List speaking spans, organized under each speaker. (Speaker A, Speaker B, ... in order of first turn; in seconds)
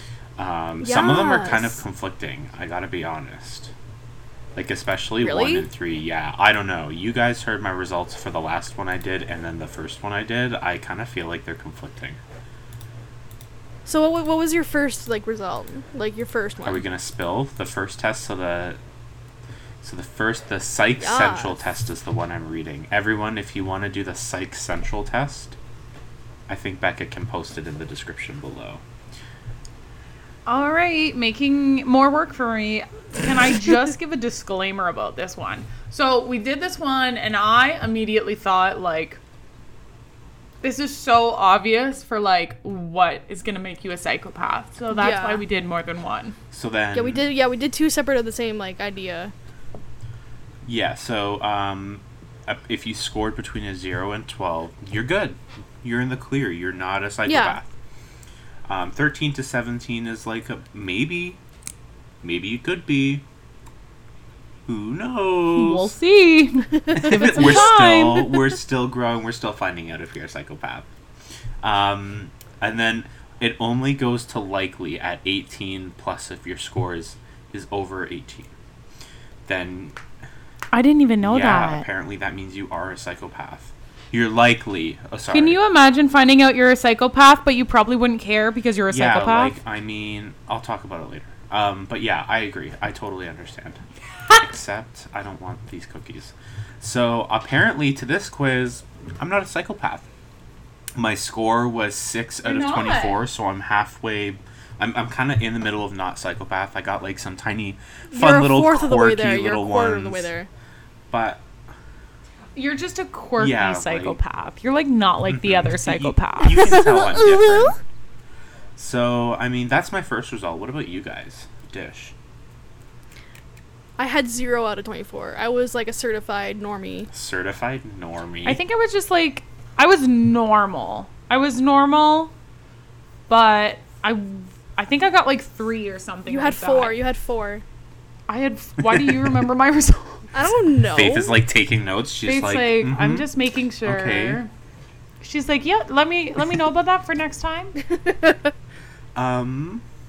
Speaker A: 0.4-3.7, 4.5-12.2, 16.6-18.8, 19.8-25.6, 26.5-28.8, 46.5-47.2, 50.6-57.7, 58.6-61.4, 62.2-63.2, 64.7-65.9, 66.9-70.9, 71.6-78.5, 79.5-80.0, 81.2-85.6, 88.9-100.0, 101.0-110.3, 111.1-111.4, 113.4-114.2, 115.3-117.8, 118.8-122.1, 127.1-128.6, 138.8-139.2, 140.9-143.3, 143.8-144.4, 149.1-149.8
Speaker B: 0.8-1.8, 5.2-5.7, 13.8-16.8, 21.0-21.6, 44.9-45.4, 46.9-49.3, 57.2-57.6, 66.9-67.5, 108.1-110.5, 116.5-117.8, 124.0-127.1, 136.3-137.6, 140.3-141.4, 148.0-148.5
Speaker C: 30.4-39.2, 40.6-46.4, 65.5-68.3, 80.7-81.8, 85.3-89.6, 102.4-103.2, 112.5-116.8, 128.4-132.3, 133.3-136.9, 138.3-140.3, 142.2-144.5, 145.2-147.8